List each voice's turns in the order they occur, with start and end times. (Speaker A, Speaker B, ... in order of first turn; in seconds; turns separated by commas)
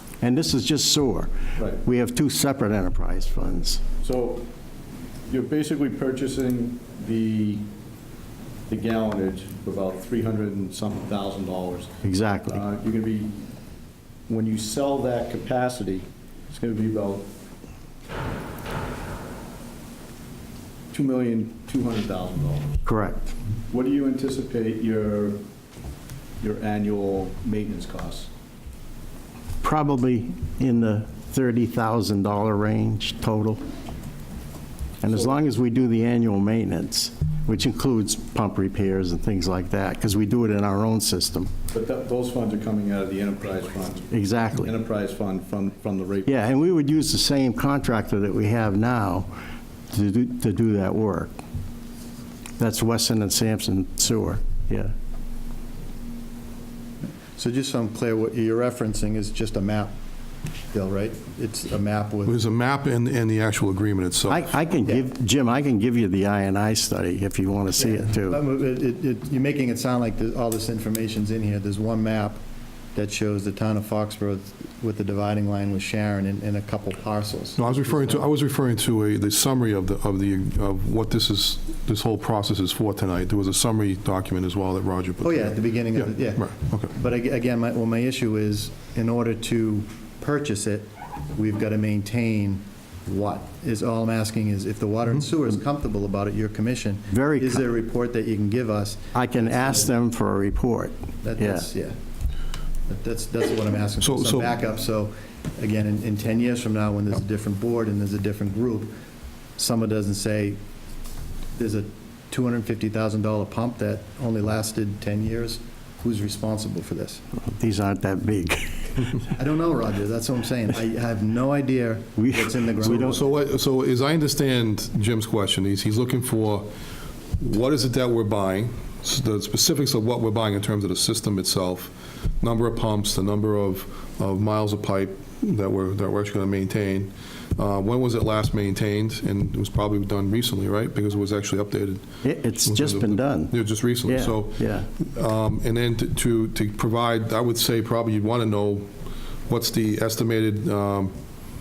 Speaker A: 0.2-1.3, Speaker B: 1.6-1.8, Speaker A: 1.8-3.8, Speaker B: 4.0-4.5, Speaker B: 5.3-7.7, Speaker B: 8.7-11.9, Speaker A: 12.0-12.6, Speaker B: 12.5-13.4, Speaker B: 14.3-17.3, Speaker B: 20.9-22.8, Speaker A: 22.9-23.3, Speaker B: 23.7-25.4, Speaker B: 26.4-28.3, Speaker A: 29.6-33.6, Speaker A: 35.0-41.5, Speaker B: 35.1-35.3, Speaker B: 41.7-46.4, Speaker A: 44.1-44.7, Speaker A: 46.3-49.3, Speaker A: 49.9-51.3, Speaker A: 52.6-54.9, Speaker C: 57.3-59.9, Speaker C: 60.7-62.4, Speaker D: 62.2-64.5, Speaker A: 64.3-68.4, Speaker C: 67.8-72.4, Speaker C: 73.0-78.3, Speaker D: 77.6-86.9, Speaker C: 85.2-99.9, Speaker A: 97.1-97.6, Speaker A: 99.1-101.7, Speaker C: 101.2-102.0, Speaker C: 102.9-108.9, Speaker D: 104.0-104.5, Speaker C: 109.6-110.6, Speaker C: 111.5-117.2, Speaker A: 117.4-119.2, Speaker C: 119.3-123.3, Speaker A: 122.2-123.2, Speaker D: 122.8-126.7, Speaker D: 127.4-142.1, Speaker A: 142.2-144.9, Speaker D: 142.6-148.9, Speaker D: 149.5-151.1